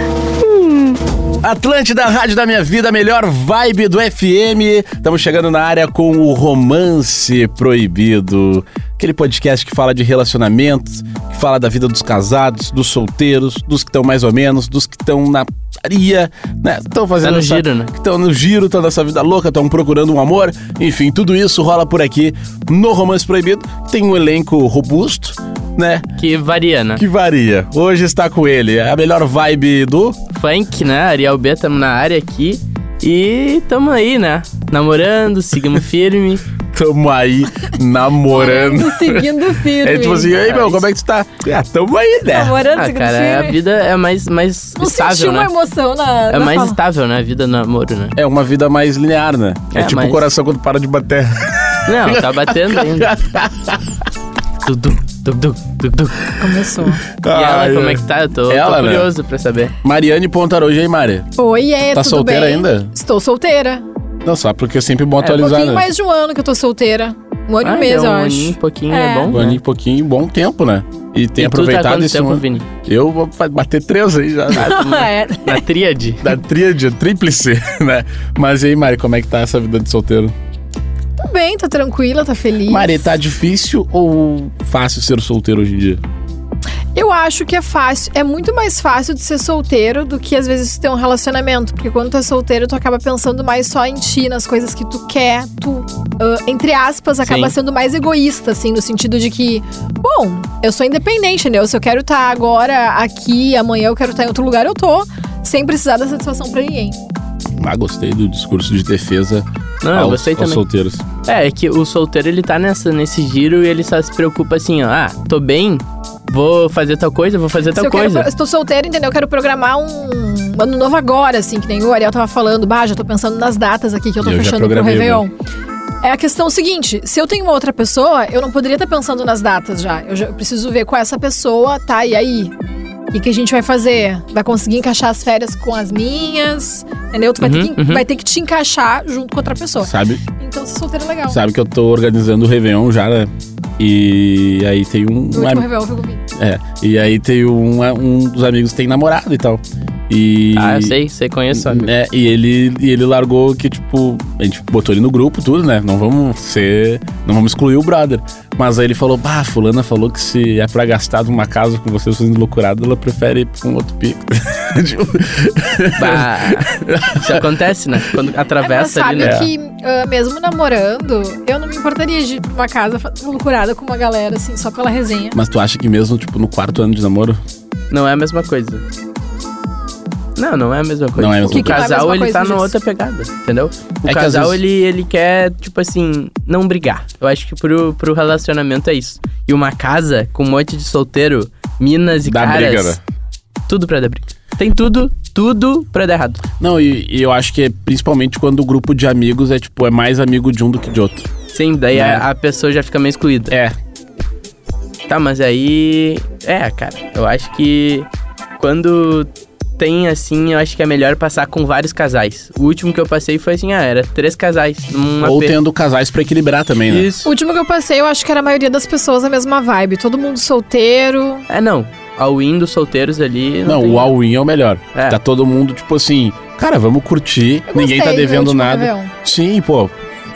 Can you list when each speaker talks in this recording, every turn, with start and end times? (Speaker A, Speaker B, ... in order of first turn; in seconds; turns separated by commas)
Speaker A: 1.4-26.1, Speaker B: 17.2-17.9, Speaker B: 26.2-27.0, Speaker A: 27.0-30.2, Speaker B: 30.3-36.4, Speaker A: 36.7-42.6, Speaker C: 38.3-40.4, Speaker B: 40.3-40.8, Speaker C: 42.3-43.6, Speaker B: 42.7-45.5, Speaker C: 44.8-46.8, Speaker B: 46.3-48.2, Speaker A: 48.2-54.1, Speaker B: 49.7-50.3, Speaker B: 51.9-53.1, Speaker B: 54.6-56.3, Speaker C: 56.4-57.0, Speaker A: 57.2-59.1, Speaker B: 57.3-59.7, Speaker A: 59.8-61.3, Speaker C: 61.4-63.9, Speaker A: 61.9-62.9, Speaker A: 64.2-65.9, Speaker B: 65.2-65.5, Speaker C: 65.3-69.4, Speaker B: 67.6-69.6, Speaker A: 69.3-74.8, Speaker B: 71.4-72.7, Speaker C: 74.5-75.6, Speaker B: 74.6-76.3, Speaker A: 76.2-80.3, Speaker C: 81.2-83.2, Speaker A: 82.7-86.0, Speaker C: 87.0-107.0, Speaker B: 97.2-97.5, Speaker A: 107.6-111.0, Speaker B: 109.8-110.6, Speaker B: 111.2-118.3, Speaker C: 117.8-125.3, Speaker A: 124.2-125.2, Speaker C: 126.0-132.5, Speaker C: 133.1-141.4, Speaker B: 137.4-138.0, Speaker A: 139.8-140.2, Speaker A: 141.3-145.7, Speaker C: 145.3-146.2, Speaker A: 146.3-151.0, Speaker B: 150.6-151.9, Speaker A: 151.5-167.5, Speaker B: 166.0-169.4, Speaker C: 168.6-175.4, Speaker A: 169.2-169.5, Speaker A: 175.3-177.4, Speaker B: 177.9-178.8, Speaker B: 180.4-193.0, Speaker A: 181.2-181.9, Speaker C: 181.5-182.7, Speaker A: 184.0-184.6, Speaker A: 192.2-193.0, Speaker B: 193.7-196.4, Speaker A: 196.6-201.3, Speaker B: 201.5-203.6, Speaker A: 201.9-202.3, Speaker A: 203.5-203.8, Speaker B: 205.1-215.6, Speaker A: 215.2-217.1, Speaker B: 216.9-217.3, Speaker C: 217.2-221.5, Speaker B: 221.5-224.1, Speaker A: 223.7-229.9, Speaker B: 224.9-225.2, Speaker C: 227.7-229.1